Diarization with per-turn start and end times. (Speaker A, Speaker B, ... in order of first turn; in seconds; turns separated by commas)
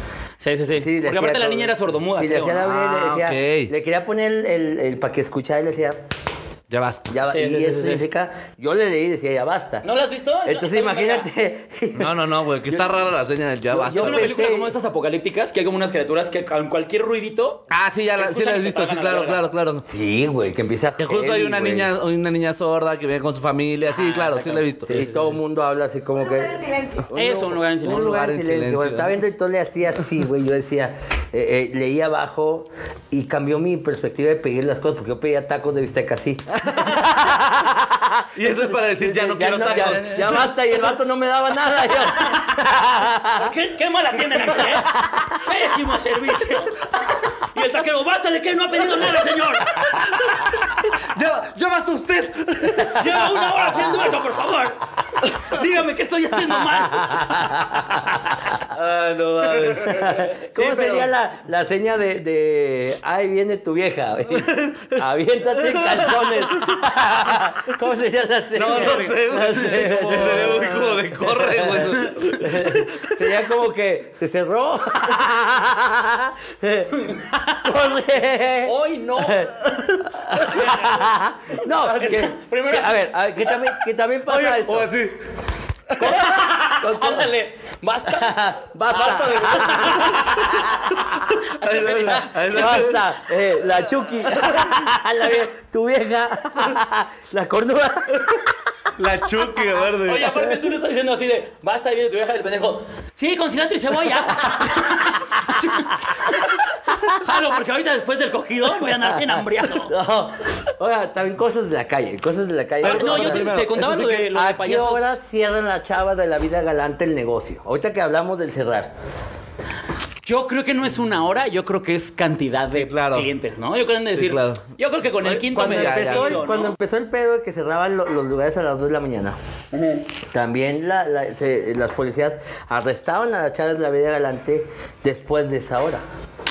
Speaker A: 0.4-2.7, Speaker B: 0.8-6.0, Speaker C: 2.6-3.7, Speaker C: 6.7-7.1, Speaker B: 7.1-9.8, Speaker A: 7.2-8.0, Speaker A: 9.8-11.3, Speaker B: 10.4-13.0, Speaker C: 11.9-14.3, Speaker B: 13.7-14.7, Speaker A: 13.9-19.6, Speaker C: 17.7-19.9, Speaker B: 19.9-21.9, Speaker C: 21.0-25.0, Speaker A: 23.9-25.4, Speaker B: 24.9-43.5, Speaker A: 27.1-28.2, Speaker C: 27.2-29.1, Speaker C: 36.7-37.0, Speaker C: 38.3-40.5, Speaker A: 39.7-40.2, Speaker A: 42.2-42.5, Speaker A: 43.3-50.5, Speaker B: 44.6-45.2, Speaker C: 50.3-53.3, Speaker A: 52.8-57.5, Speaker B: 56.8-58.5, Speaker C: 58.7-61.1, Speaker B: 59.6-85.0, Speaker C: 64.4-65.0, Speaker C: 65.6-66.7, Speaker C: 68.5-73.2, Speaker A: 68.8-70.6, Speaker A: 71.9-72.3, Speaker A: 77.0-77.7, Speaker A: 78.6-79.5, Speaker A: 80.4-83.1, Speaker C: 84.2-85.2, Speaker C: 85.9-86.2, Speaker B: 86.0-87.3, Speaker A: 86.0-93.0, Speaker B: 88.1-90.8, Speaker C: 88.9-90.4, Speaker C: 91.5-93.0, Speaker B: 92.1-98.5, Speaker C: 99.0-100.4, Speaker A: 99.9-109.9, Speaker B: 109.3-118.9, Speaker C: 112.8-113.8, Speaker A: 112.8-115.1, Speaker A: 120.2-126.7, Speaker C: 122.7-123.3, Speaker C: 124.1-124.7, Speaker B: 125.3-129.4, Speaker C: 125.3-126.4, Speaker A: 129.7-130.1, Speaker B: 130.3-136.0